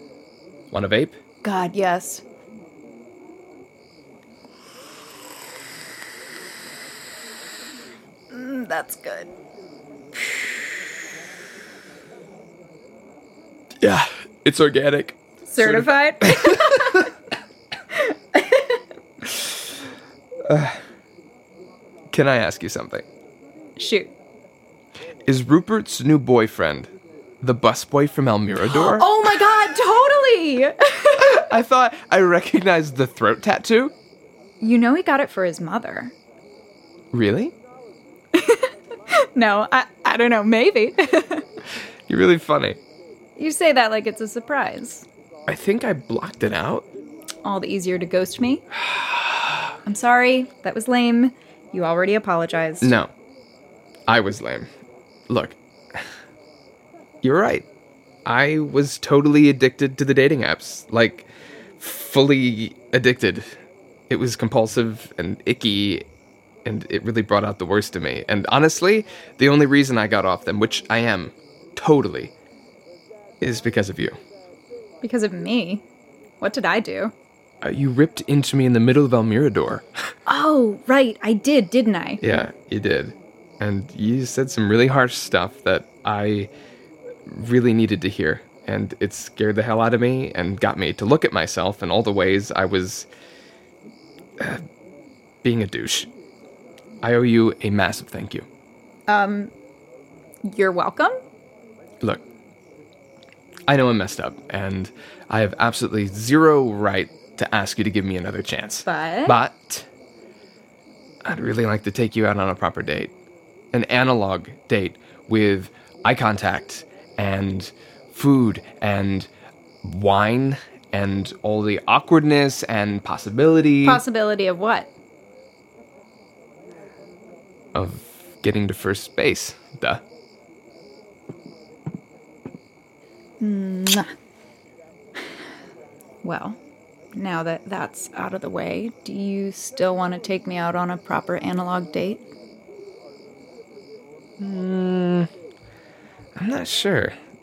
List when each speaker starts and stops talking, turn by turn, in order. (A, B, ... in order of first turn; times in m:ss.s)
0:00.7-0:01.2 A
0:01.4-0:02.2 B
0:08.3-0:09.3 B
0:13.8-0:17.1 A
0:15.5-0:17.1 B
0:17.9-0:18.8 B
0:20.5-0:20.8 A
0:22.1-0:23.0 A
0:23.8-0:24.1 B
0:25.2-0:29.7 A
0:28.6-0:31.5 B
0:31.1-0:33.9 A
0:34.6-0:36.1 B
0:37.1-0:37.5 A
0:38.4-0:41.4 B
0:42.1-0:42.8 A
0:43.4-0:45.0 B
0:45.5-0:46.9 A
0:47.4-0:48.6 B
0:48.9-0:49.4 A
0:49.8-0:52.9 B
0:52.8-0:53.1 A
0:54.1-0:54.7 A
0:55.3-0:56.0 A
0:57.2-0:57.7 A
0:58.2-1:01.3 A
1:01.8-1:03.6 A
1:04.1-1:06.0 A
1:06.6-1:12.3 A
1:13.4-1:14.2 A
1:15.0-1:15.8 B
1:16.4-1:17.1 B
1:17.6-1:19.9 A
1:20.3-1:22.2 B
1:22.2-1:26.5 A
1:27.3-1:33.1 A
1:34.4-1:34.6 A
1:35.4-1:36.1 A
1:37.0-1:38.4 A
1:39.1-1:39.5 B
1:40.5-1:41.2 B
1:43.7-1:49.9 A
1:48.8-1:49.4 B
1:51.2-1:53.1 A
1:53.7-1:59.3 A
1:59.8-2:04.0 A
2:03.8-2:04.9 B
2:07.7-2:10.0 A
2:13.4-2:14.1 B
2:16.2-2:16.6 B
2:17.1-2:22.2 B
2:24.4-2:25.3 A
2:26.4-2:27.2 A